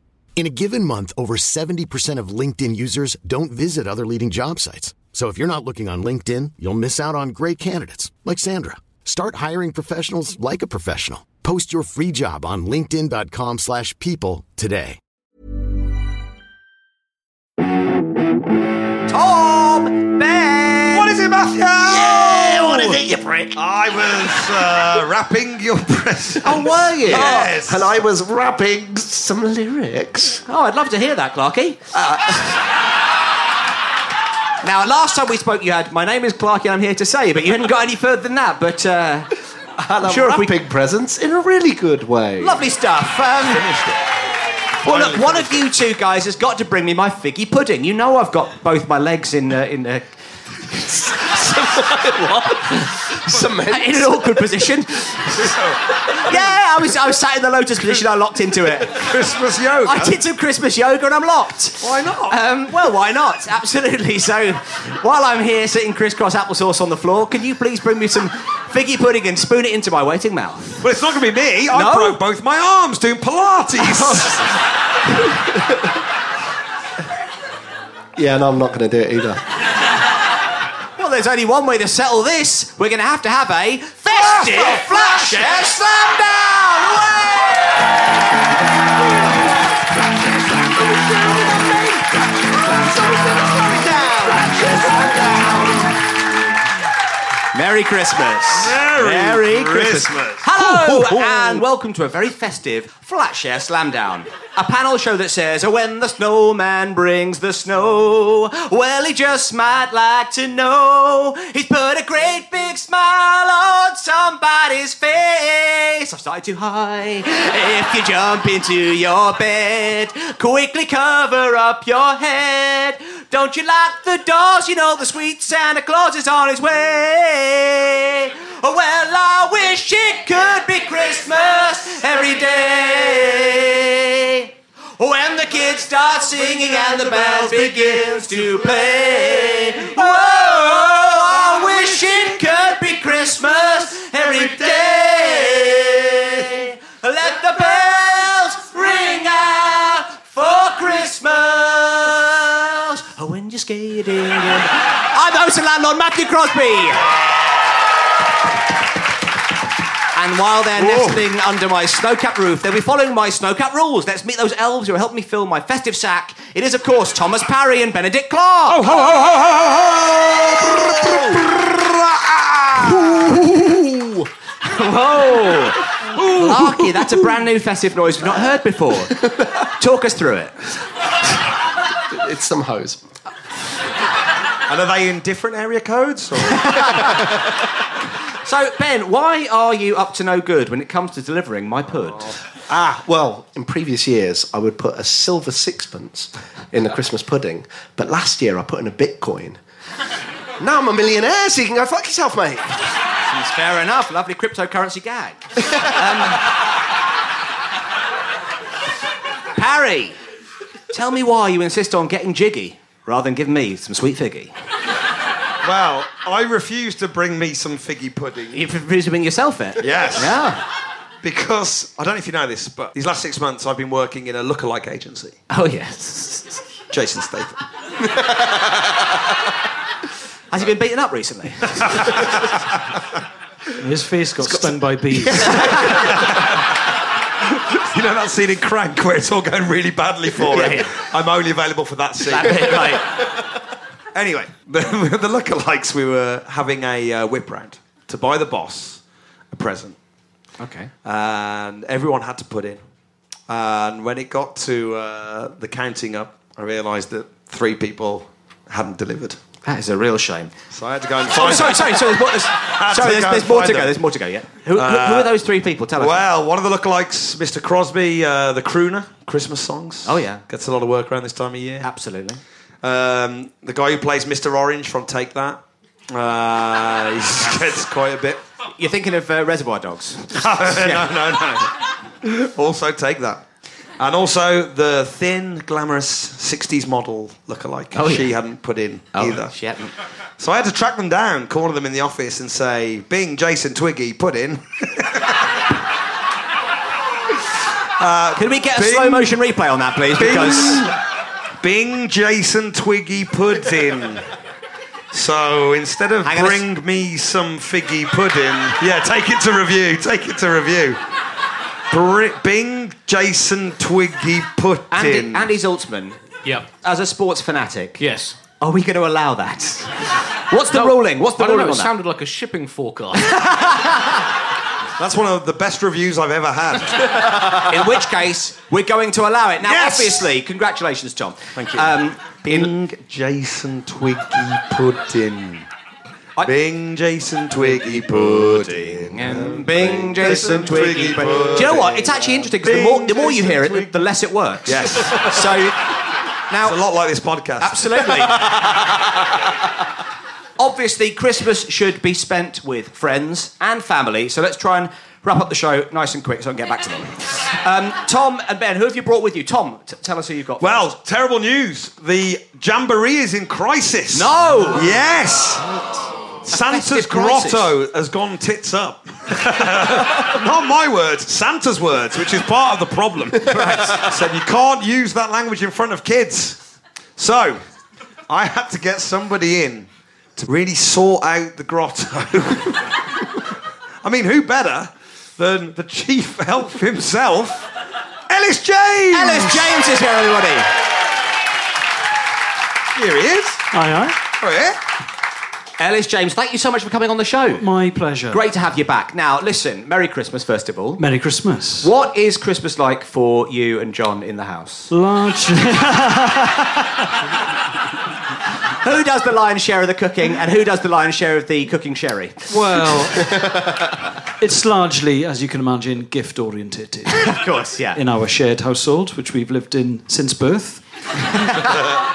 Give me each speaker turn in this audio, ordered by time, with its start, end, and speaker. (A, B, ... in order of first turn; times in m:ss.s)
0:00.3-0:15.0 A
0:19.1-0:21.1 B
0:20.9-0:23.0 C
0:21.8-0:23.6 D
0:23.5-0:28.0 C
0:26.4-0:27.5 B
0:26.5-0:30.4 D
0:30.4-0:31.8 B
0:32.0-0:32.4 D
0:34.6-0:39.3 B
0:39.8-0:42.6 D
0:40.0-0:40.5 B
0:42.4-0:43.6 B
0:43.4-0:44.0 C
0:44.8-0:50.1 B
0:44.8-0:45.7 C
0:50.8-0:54.4 D
0:53.7-0:55.2 B
0:55.3-0:55.8 C
0:56.2-0:59.1 B
0:58.9-1:00.2 C
0:59.8-1:10.8 B
1:01.8-1:02.4 C
1:10.8-1:14.4 C
1:11.7-1:12.2 B
1:18.2-1:19.4 D
1:21.0-1:27.9 B
1:24.1-1:25.9 C
1:31.2-1:31.5 C
1:32.8-1:35.8 B
1:33.1-1:33.6 C
1:37.5-2:37.1 B
1:38.5-1:41.5 C
2:40.1-2:48.9 B
2:40.7-2:41.2 C
2:48.7-2:53.5 C
2:50.8-2:51.4 B
2:54.6-2:59.2 B
2:56.2-2:56.9 C
2:59.8-3:00.5 B
3:02.1-3:03.0 D
3:04.7-3:07.2 C
3:06.5-3:07.2 B
3:08.4-3:12.3 B
3:12.7-3:19.6 D
3:20.6-3:22.7 D
3:23.2-3:26.4 B
3:29.6-3:30.2 B
3:30.9-3:34.5 B
3:35.6-3:38.6 C
3:38.5-3:40.6 B
3:39.8-3:40.4 C
3:41.2-3:45.4 C
3:45.5-3:46.6 B
3:46.9-3:47.5 C
3:50.5-3:52.0 B
3:51.6-3:52.8 C
3:53.8-3:55.7 E
3:55.4-3:56.2 D
3:55.5-3:56.0 B
3:55.7-3:56.7 C
3:57.5-4:03.1 C
4:00.5-4:00.9 B
4:02.3-4:03.1 B
4:04.1-4:10.0 C
4:10.6-4:10.9 B
4:11.0-4:12.8 C
4:13.5-4:19.4 C
4:19.6-4:20.5 B
4:20.7-4:24.0 C
4:21.2-4:26.2 B
4:24.7-4:25.4 C
4:26.0-4:31.9 C
4:30.0-4:30.4 B
4:31.8-4:32.4 B
4:32.8-4:35.6 C
4:36.1-4:38.4 C
4:37.4-4:37.7 B
4:38.8-4:41.2 B
4:40.3-4:41.7 C
4:42.2-4:43.4 C
4:44.0-4:49.5 C
4:47.9-4:48.3 B
4:49.1-4:49.9 B
4:50.4-4:55.3 C
4:58.0-4:59.4 C
4:58.3-5:00.9 B
5:00.1-5:00.9 C
5:01.6-5:04.2 C
5:05.1-5:11.0 C
5:06.2-5:06.6 B
5:11.9-5:15.5 C
5:14.9-5:16.2 B
5:16.8-5:18.0 B
5:18.0-5:18.4 F
5:18.6-5:21.9 B
5:20.7-5:23.4 F
5:23.2-5:24.2 B
5:25.0-5:27.6 C
5:27.6-5:32.7 B
5:29.6-5:30.3 C
5:31.5-5:35.6 C
5:36.4-5:44.0 C
5:38.2-5:45.8 B
5:44.6-5:45.7 C
5:46.5-5:46.8 B
5:46.6-5:48.8 C
5:47.6-5:48.5 B
5:50.6-6:00.9 B
6:00.6-6:05.8 C
6:04.1-6:05.0 B
6:06.4-6:16.6 C
6:06.5-6:07.7 B
6:13.5-6:14.0 B
6:17.2-6:17.6 C
6:18.3-6:23.0 C
6:24.0-6:27.7 C
6:28.3-6:29.7 C
6:29.1-6:30.7 B
6:32.9-6:33.6 C
6:33.7-6:34.2 E
6:34.4-6:34.8 C
6:35.8-6:37.6 B
6:37.6-6:38.4 E
6:38.3-6:41.0 B
6:41.0-6:41.9 E
6:41.8-6:44.9 B
6:44.9-6:46.9 E
6:48.8-6:52.4 B
6:52.5-6:53.4 E
6:54.4-6:57.4 E
6:57.1-6:58.0 B
6:57.9-7:01.6 E